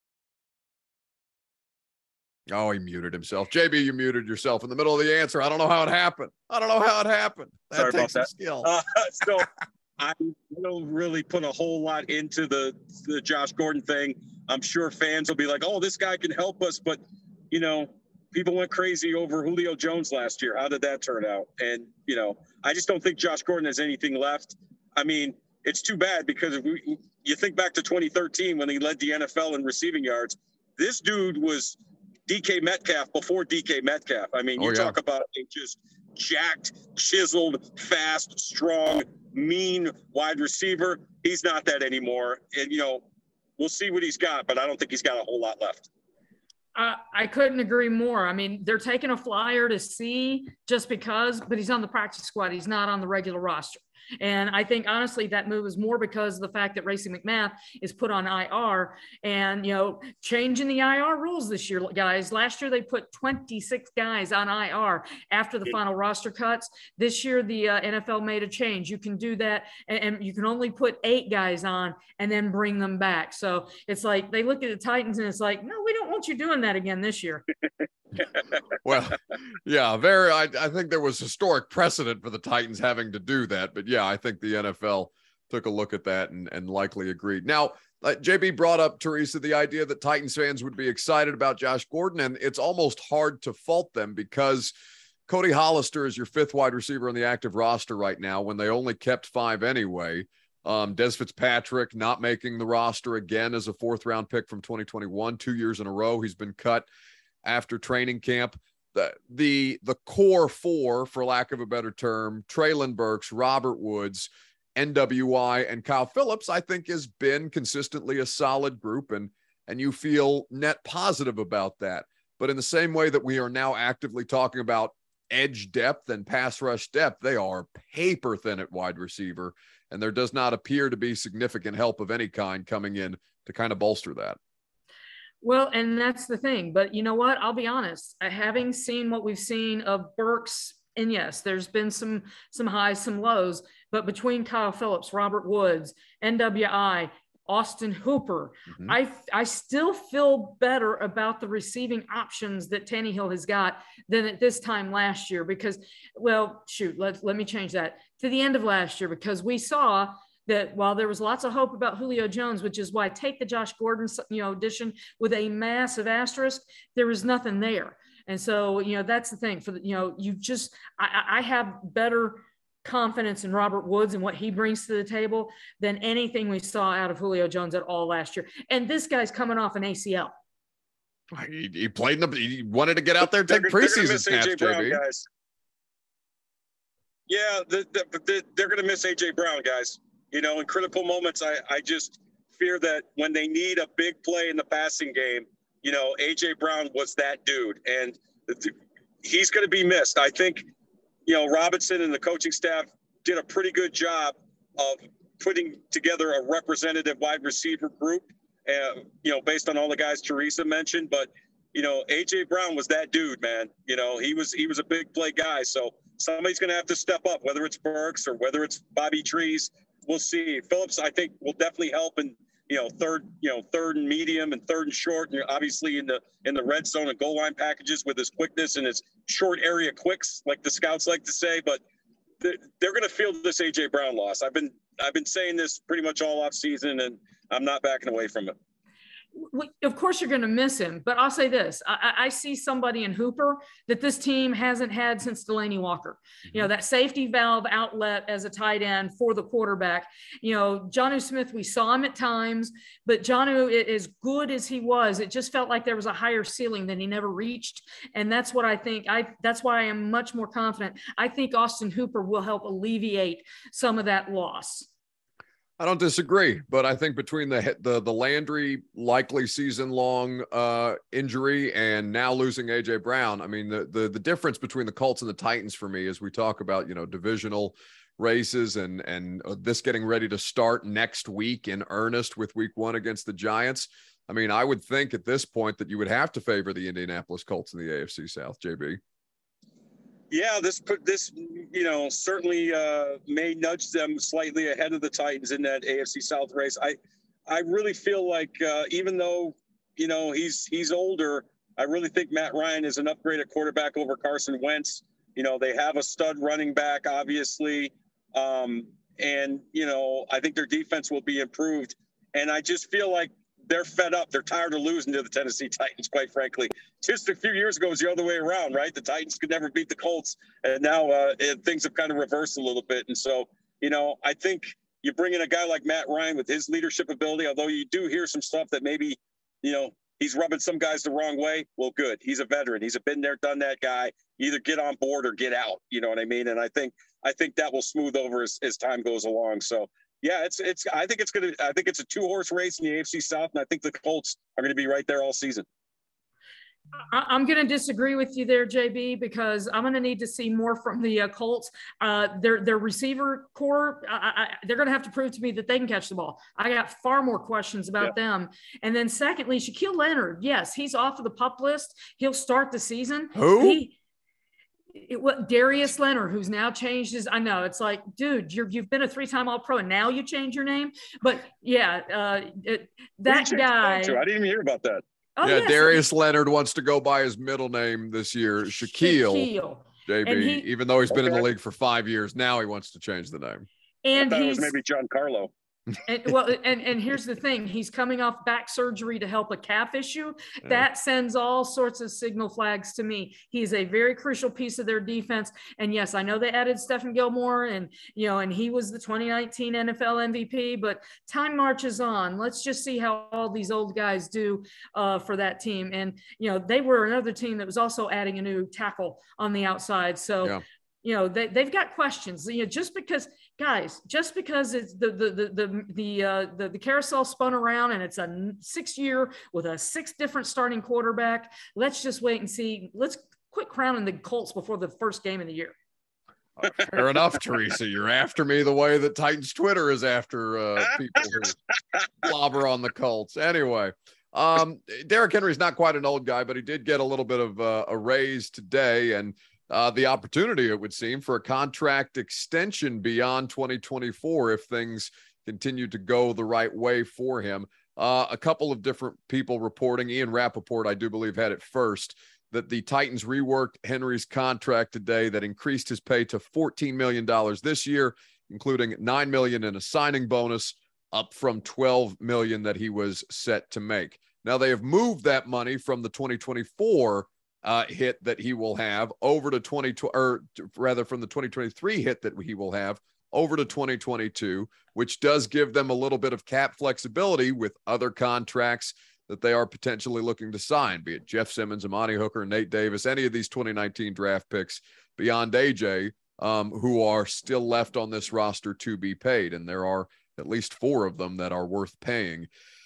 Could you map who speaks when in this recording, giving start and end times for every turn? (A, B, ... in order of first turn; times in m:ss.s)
0:02.5-0:08.7 A
0:07.7-0:43.0 B
0:34.6-0:34.9 A
0:43.6-0:45.9 B
0:46.7-1:17.4 C
1:18.8-1:34.7 A
1:35.3-1:46.9 A
1:47.4-2:14.4 A
2:15.4-3:00.3 C
3:01.3-3:05.0 A
3:03.3-3:05.2 B
3:07.3-3:20.7 B
3:21.2-3:51.8 B
3:52.4-3:58.5 B
3:59.4-4:24.9 C
4:25.8-4:49.0 A
4:50.3-4:57.0 B
4:57.5-5:45.6 B
5:47.1-6:04.0 C
6:03.3-6:03.8 A
6:04.9-6:14.2 C
6:13.3-6:15.0 B
6:15.4-6:16.0 C
6:15.4-6:19.5 A
6:18.8-6:20.7 C
6:20.1-6:23.7 A
6:21.1-6:21.4 B
6:24.0-6:24.7 C
6:24.2-6:25.5 B
6:26.0-7:05.7 C
7:06.6-7:11.6 A
7:12.2-8:12.5 A